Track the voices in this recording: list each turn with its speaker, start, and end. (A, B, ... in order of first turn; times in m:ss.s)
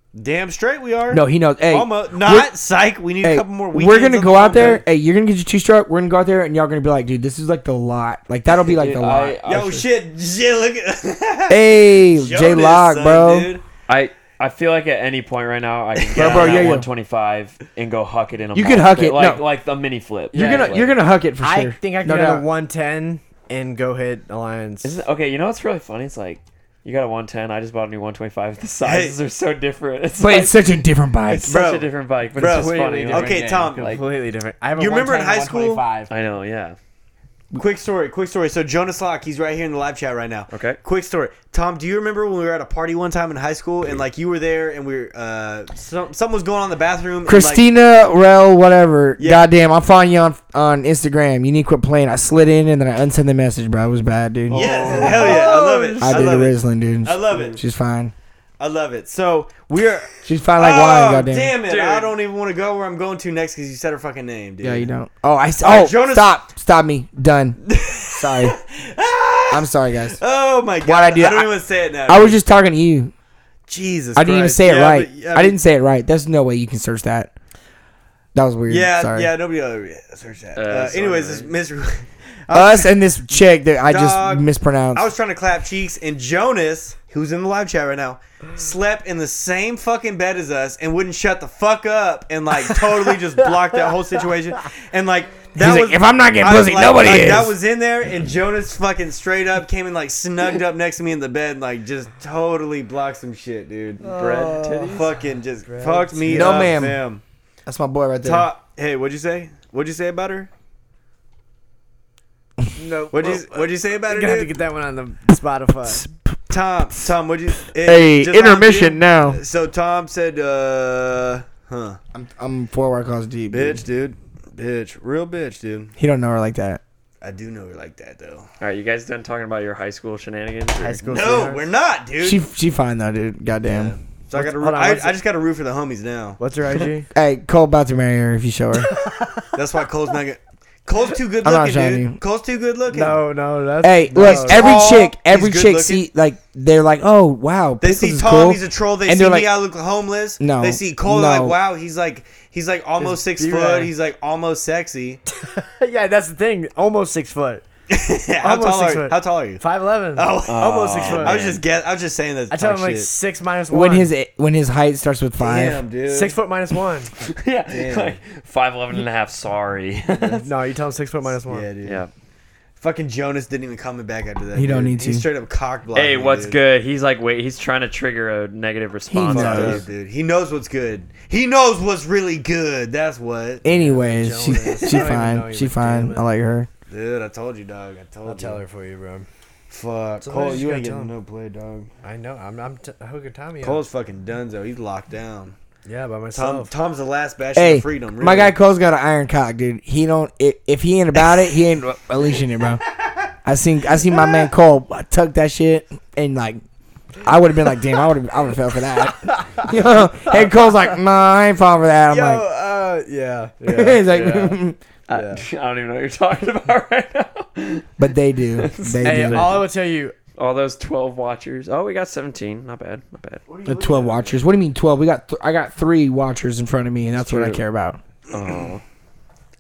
0:00.1-0:04.8 A
0:01.1-0:02.5 B
0:03.2-0:09.6 B
0:08.6-0:09.8 C
0:09.4-0:13.6 A
0:11.5-0:13.5 B
0:13.9-0:20.9 C
0:16.0-0:16.7 A
0:16.2-0:16.9 B
0:18.6-0:19.4 B
0:20.3-0:25.0 D
0:20.3-0:22.5 B
0:24.8-0:34.0 C
0:28.8-0:29.2 A
0:30.2-0:31.5 B
0:31.5-0:34.0 A
0:32.4-0:36.1 D
0:34.8-0:35.8 A
0:36.1-0:36.8 C
0:37.6-0:47.7 A
0:40.5-0:40.8 C
0:47.3-0:55.3 B
0:49.2-0:49.5 A
0:54.5-0:56.4 D
0:54.5-0:57.6 A
0:55.0-0:55.5 C
0:56.0-0:58.1 B
0:58.6-1:04.9 A
1:00.2-1:01.6 B
1:01.7-1:02.1 C
1:04.6-1:08.6 B
1:05.6-1:06.4 A
1:07.6-1:12.4 A
1:09.5-1:10.2 B
1:10.8-1:13.1 B
1:13.7-1:15.6 A
1:14.2-1:17.3 B
1:18.4-1:19.3 B
1:18.7-1:23.0 A
1:20.6-1:21.5 C
1:22.5-1:25.1 B
1:23.9-1:44.2 A
1:35.6-1:37.5 B
1:44.0-1:46.8 D
1:44.0-1:45.1 C
1:44.9-1:47.2 A
1:46.3-1:47.0 B
1:47.7-1:48.5 B
1:48.2-1:50.5 A
1:52.7-1:56.1 D
1:53.1-1:54.6 A
1:56.5-2:02.0 A
1:57.8-1:59.4 B
2:02.1-2:03.8 B
2:03.5-2:05.9 A
2:06.0-2:06.8 B
2:07.2-2:08.5 A
2:08.6-2:11.1 C
2:10.8-2:11.6 D
2:11.1-2:12.4 A
2:12.2-2:14.0 B
2:13.6-2:16.4 A
2:14.3-2:15.2 D
2:16.4-2:17.1 D
2:17.1-2:19.0 B
2:18.9-2:19.5 D
2:19.5-2:23.2 A
2:21.4-2:22.2 B
2:22.9-2:24.9 D
2:23.8-2:29.5 B
2:24.2-2:26.1 A
2:27.8-2:35.2 A
2:30.4-2:31.6 B
2:33.0-2:33.9 D
2:35.3-2:37.6 D
2:37.9-2:39.6 A
2:38.4-2:41.6 D
2:40.1-2:43.1 A
2:40.4-2:41.6 C
2:42.5-2:44.1 D
2:43.7-2:45.8 B
2:45.4-2:46.4 A
2:46.1-2:47.1 D
2:47.2-2:50.5 C
2:47.7-2:48.2 A
2:50.2-2:51.7 D
2:51.5-2:52.0 A
2:51.8-2:52.1 C
2:52.8-2:56.6 A
2:54.6-2:55.3 B
2:55.9-2:59.9 C
2:59.1-2:59.8 B
2:59.3-3:03.6 A
3:03.6-3:06.7 B
3:03.7-3:06.3 D
3:04.6-3:05.2 A
3:06.9-3:08.6 A
3:08.2-3:09.3 D
3:09.7-3:11.9 A
3:10.2-3:11.1 D
3:12.0-3:13.8 D
3:13.6-3:15.6 A
3:15.8-3:16.7 D
3:16.3-3:18.6 A
3:17.6-3:22.8 B
3:23.4-3:26.6 B
3:27.2-3:32.4 B
3:32.1-3:35.4 D
3:33.6-3:34.8 B
3:35.1-3:38.0 C
3:38.0-3:39.6 B
3:38.6-3:39.7 C
3:39.0-3:40.2 D
3:40.4-3:43.4 C
3:43.5-3:44.4 A
3:43.6-3:48.0 B
3:47.2-3:47.6 C
3:48.3-3:48.7 A
3:48.3-3:48.8 C